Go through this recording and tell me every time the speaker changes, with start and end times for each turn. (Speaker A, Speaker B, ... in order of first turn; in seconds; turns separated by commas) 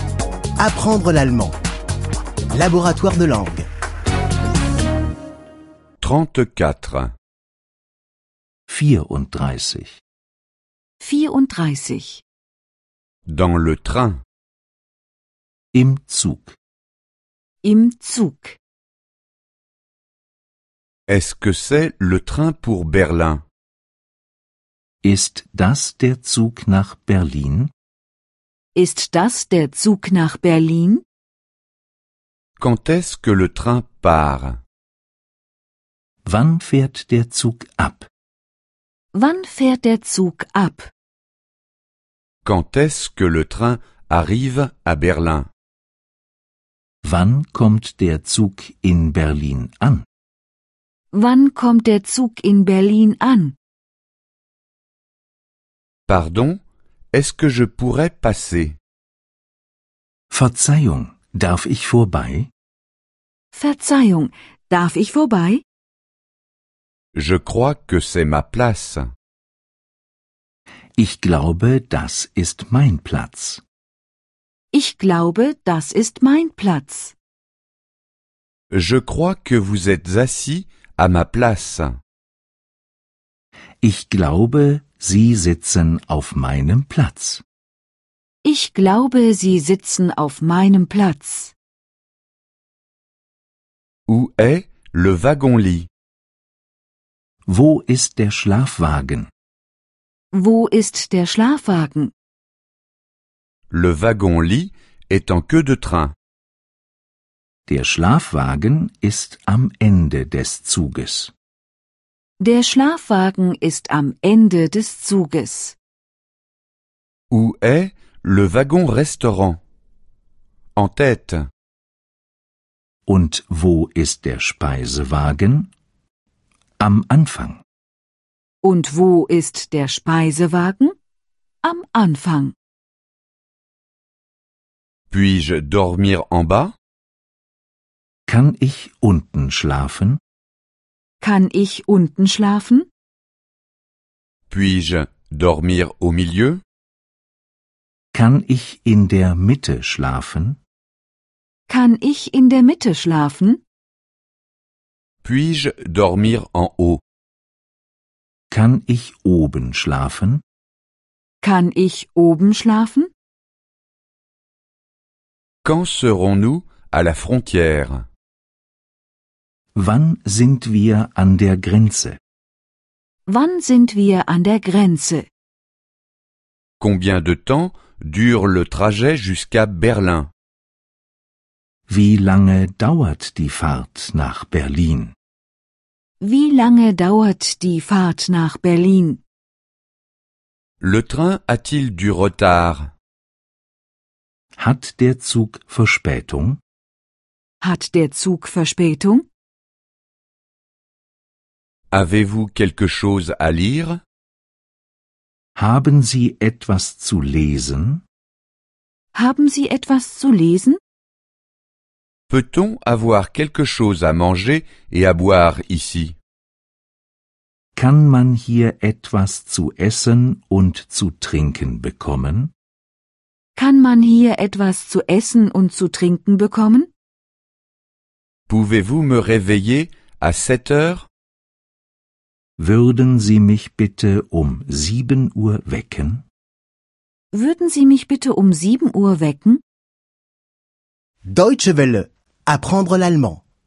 Speaker A: 0.6-1.6, Speaker A: 2.5-3.7, Speaker B: 6.0-7.1, Speaker C: 8.7-10.0, Speaker D: 11.0-12.2, Speaker B: 13.3-14.2, Speaker C: 15.7-16.6, Speaker D: 17.6-18.6, Speaker B: 21.1-23.4, Speaker C: 25.0-27.7, Speaker D: 28.8-31.0, Speaker B: 32.6-34.6, Speaker C: 36.3-38.1, Speaker D: 39.1-40.9, Speaker B: 42.5-45.5, Speaker C: 47.0-50.0, Speaker D: 51.1-53.6, Speaker B: 56.1-56.6, Speaker B: 57.1-58.8, Speaker C: 60.3-62.5, Speaker D: 63.5-65.6, Speaker B: 67.2-69.1, Speaker C: 71.0-73.6, Speaker D: 74.7-77.2, Speaker B: 78.7-82.0, Speaker C: 83.8-87.4, Speaker D: 88.4-91.5, Speaker B: 94.1-95.9, Speaker C: 97.5-99.3, Speaker D: 100.3-102.1, Speaker B: 103.7-106.1, Speaker C: 107.7-111.3, Speaker D: 112.4-115.8, Speaker B: 117.3-119.6, Speaker B: 120.8-121.5, Speaker C: 123.1-125.7, Speaker C: 126.8-127.6, Speaker D: 128.6-130.9, Speaker D: 131.6-132.6, Speaker B: 135.1-136.7, Speaker C: 138.3-140.2, Speaker D: 141.2-142.9, Speaker B: 144.5-146.6, Speaker C: 148.1-150.6, Speaker D: 151.7-153.6, Speaker B: 155.2-157.0, Speaker C: 158.5-160.4, Speaker D: 161.4-163.1, Speaker B: 165.7-168.1, Speaker C: 169.8-172.2, Speaker D: 173.3-175.3, Speaker B: 176.8-180.3, Speaker C: 181.9-185.1, Speaker D: 186.2-189.2, Speaker B: 190.8-192.9, Speaker C: 194.6-196.6, Speaker D: 197.6-199.2, Speaker B: 201.9-204.0, Speaker C: 205.6-208.0, Speaker D: 209.1-210.8, Speaker B: 212.3-216.2, Speaker C: 217.8-222.5, Speaker D: 223.6-226.9, Speaker B: 228.5-231.1, Speaker C: 232.6-236.2, Speaker D: 237.3-239.6, Speaker A: 241.2-243.4